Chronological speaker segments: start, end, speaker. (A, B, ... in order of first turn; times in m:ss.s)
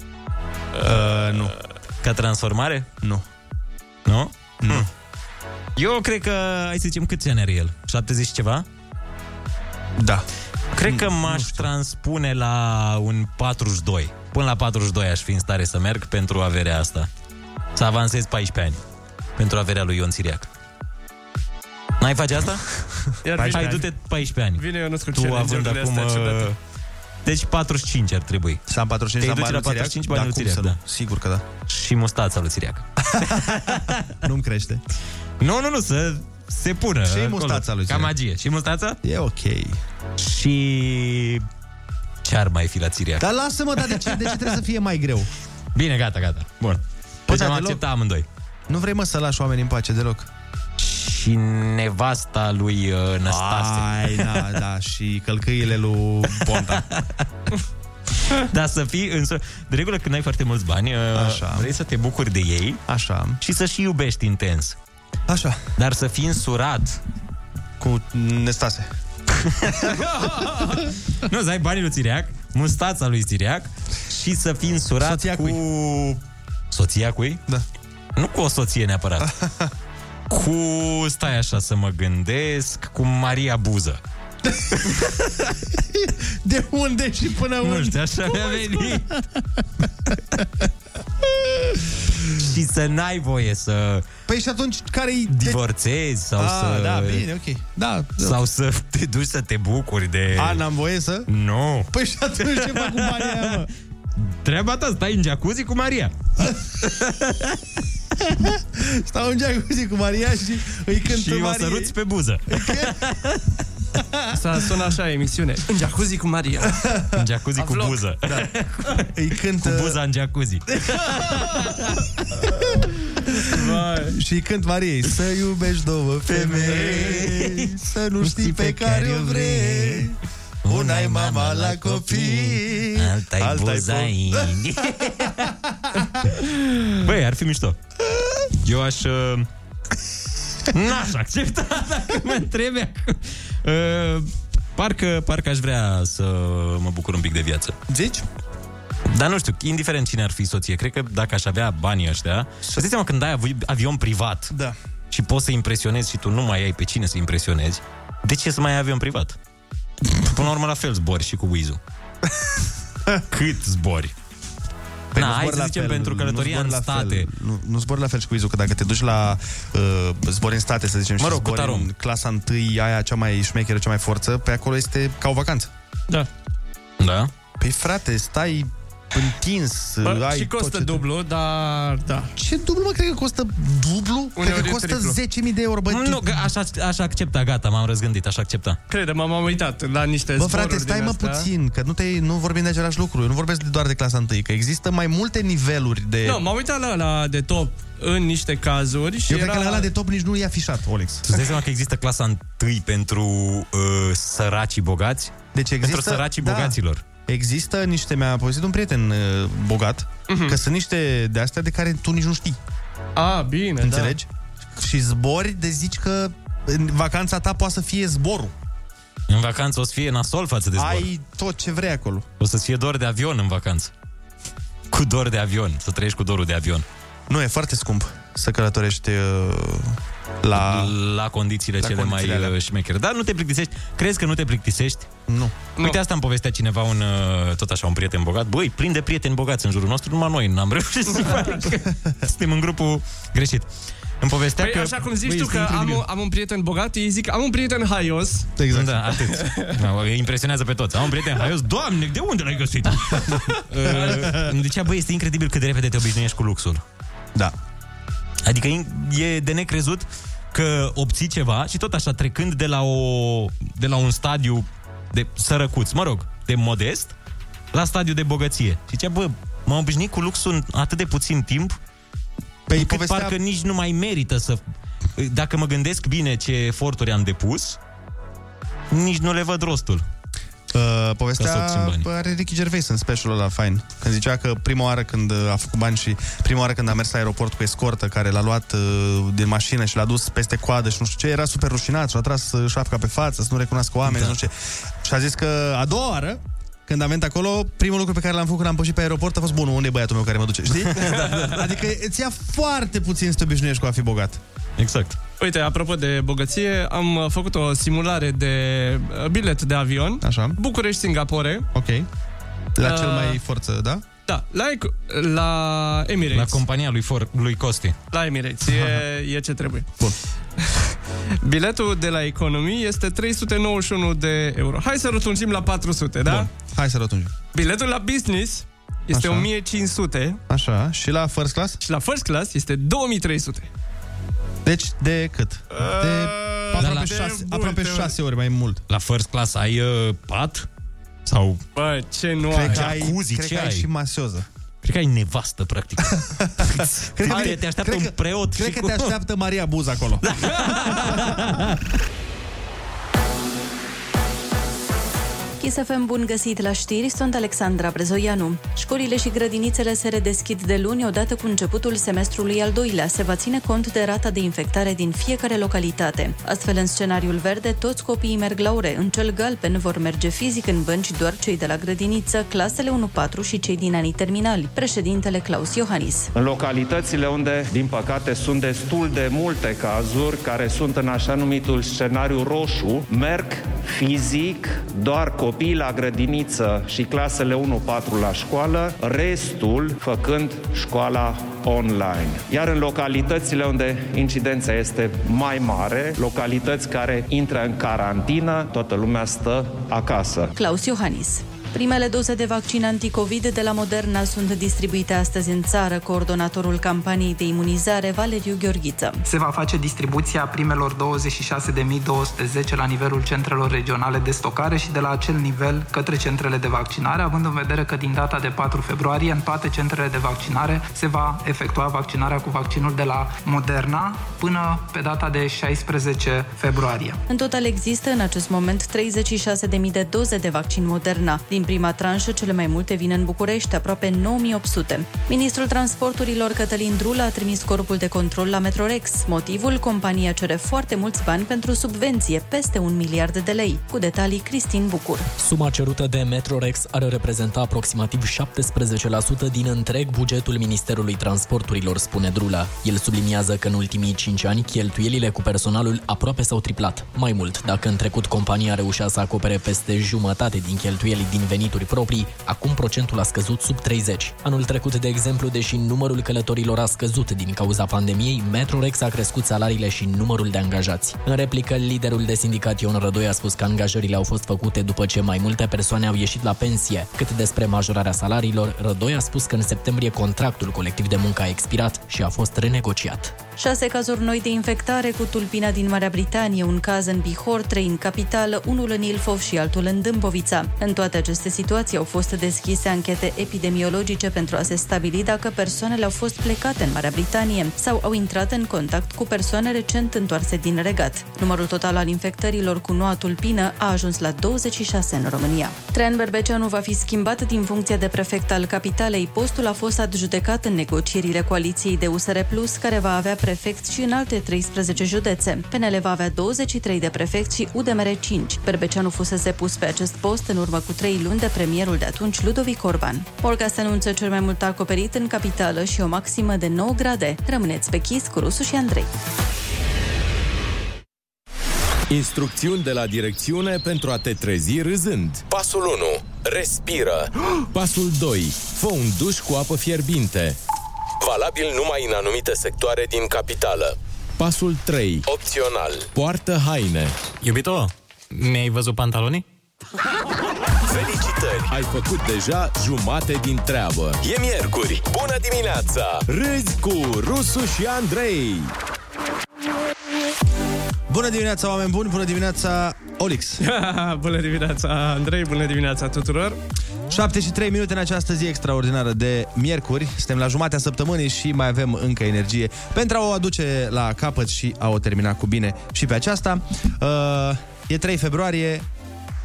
0:00.8-0:01.5 A
0:02.0-0:02.9 B
0:04.0-0:04.9 B
0:04.6-0:04.9 A
0:05.8-0:08.6 B
0:10.0-0:10.2 A
0:10.7-0:17.1 B
0:10.8-0:11.7 A
0:17.8-0:18.8 B
0:19.4-0:20.5 B
0:22.0-0:22.8 B
0:23.2-0:23.8 C
0:23.3-0:23.7 A
0:23.4-0:26.6 B
0:24.6-0:26.5 C
0:27.2-0:28.6 B
0:28.7-0:31.4 A
0:29.2-0:30.8 B
0:31.7-0:34.0 B
0:33.1-0:34.8 A
0:35.4-0:39.0 B
0:37.0-0:38.1 A
0:39.0-0:39.8 A
0:40.2-0:41.4 B
0:42.2-0:43.3 B
0:43.2-0:45.3 A
0:45.7-0:48.2 B
0:47.3-0:47.8 A
0:48.7-0:50.3 A
0:50.8-0:54.4 B
0:53.2-0:56.9 A
0:56.4-0:57.0 B
0:58.4-1:02.8 B
1:01.1-1:01.7 A
1:02.9-1:03.4 A
1:03.4-1:04.8 B
1:05.3-1:05.6 A
1:05.8-1:07.0 B
1:07.8-1:08.9 A
1:09.4-1:16.2 B
1:15.0-1:15.6 A
1:16.7-1:17.4 B
1:18.2-1:19.3 B
1:19.2-1:19.7 A
1:20.3-1:24.0 B
1:24.9-1:25.3 B
1:25.9-1:29.0 A
1:27.6-1:29.2 B
1:31.6-1:32.1 A
1:32.3-1:34.0 B
1:34.3-1:35.6 A
1:35.3-1:37.2 B
1:36.4-1:38.4 A
1:38.2-1:40.6 B
1:40.3-1:41.3 A
1:41.3-1:41.9 B
1:41.9-1:43.7 A
1:42.4-1:43.6 B
1:44.2-1:46.1 B
1:46.8-1:47.5 B
1:48.6-1:51.9 A
1:51.0-1:53.4 B
1:52.5-1:53.0 A
1:54.0-1:54.4 A
1:54.3-1:56.7 C
1:56.8-1:57.2 A
1:57.1-1:59.0 B
1:57.6-1:58.0 C
1:59.1-2:00.0 A
1:59.6-2:02.0 B
2:03.3-2:14.6 A
2:03.5-2:04.2 C
2:06.3-2:10.1 B
2:10.6-2:15.5 B
2:15.4-2:16.3 A
2:16.3-2:17.8 B
2:18.6-2:19.5 B
2:20.7-2:27.7 B
2:27.9-2:28.2 A
2:29.1-2:34.5 B
2:34.5-2:34.8 A
2:35.1-2:39.4 B
2:40.2-2:41.8 B
2:43.3-2:44.1 B
2:45.1-2:55.7 A
2:45.1-2:47.3 B
2:51.2-2:51.9 B
2:57.0-2:57.3 B
2:57.6-3:01.0 A
3:00.0-3:02.3 C
3:02.4-3:06.5 A
3:04.4-3:05.2 C
3:05.9-3:08.8 B
3:08.9-3:11.5 C
3:10.4-3:16.4 A
3:16.2-3:19.9 C
3:19.3-3:21.3 A
3:21.3-3:27.0 B
3:25.5-3:32.6 A
3:30.3-3:30.6 C
3:33.2-3:34.2 C
3:33.8-3:38.5 A
3:39.3-3:41.1 B
3:40.8-3:42.3 A
3:42.4-3:43.9 B
3:44.9-3:46.8 B
3:47.3-3:50.9 A
3:50.5-3:55.1 B
3:51.8-3:52.5 A
3:55.3-3:55.5 A
3:55.8-4:03.7 B
4:04.2-4:05.0 B
4:04.6-4:08.5 C
4:05.4-4:06.0 A
4:08.6-4:09.0 A
4:08.7-4:16.8 B
4:09.4-4:09.8 C
4:13.8-4:14.3 C
4:13.8-4:14.4 A
4:18.4-4:27.1 B
4:27.7-4:31.8 B
4:32.7-4:33.4 A
4:32.7-4:34.6 B
4:35.2-4:37.8 B
4:38.9-4:40.0 B
4:40.7-5:04.4 A
4:41.4-4:42.0 B
4:54.1-4:54.4 B
5:01.0-5:01.6 C
5:04.8-5:05.2 B
5:05.4-5:11.7 C
5:10.2-5:10.6 A
5:11.7-5:12.1 A
5:12.8-5:14.0 A
5:12.8-5:13.4 C
5:14.3-5:16.6 C
5:16.3-5:18.0 B
5:18.1-5:19.9 C
5:18.7-5:19.0 A
5:20.6-5:26.5 C
5:26.2-5:27.3 A
5:27.5-5:30.4 C
5:29.1-5:29.5 A
5:30.5-5:31.8 A
5:31.8-5:33.7 C
5:34.6-5:38.8 A
5:35.7-5:38.2 C
5:36.8-5:37.2 B
5:38.9-5:40.7 B
5:41.2-5:41.6 B
5:41.8-5:42.9 C
5:42.5-5:44.4 A
5:42.6-5:43.9 B
5:44.8-5:49.2 B
5:46.1-5:51.4 A
5:50.2-5:51.8 B
5:55.6-6:16.3 D
6:16.4-6:40.5 E
6:40.5-6:49.2 D
6:49.2-7:07.2 F
7:07.3-7:25.3 D
7:25.4-8:03.4 G
8:03.6-8:49.1 D
8:52.1-8:55.4 H
8:55.5-8:57.3 I
8:57.7-9:00.6 H
9:01.2-9:04.0 I
9:04.4-9:05.2 H
9:05.2-9:06.1 I
9:06.1-9:07.1 H
9:07.4-9:09.4 B
9:10.9-9:11.7 I
9:11.7-9:14.2 H
9:14.2-9:16.2 I
9:16.3-9:18.7 H
9:21.1-9:23.6 A
9:23.6-9:26.6 C
9:27.1-9:38.9 A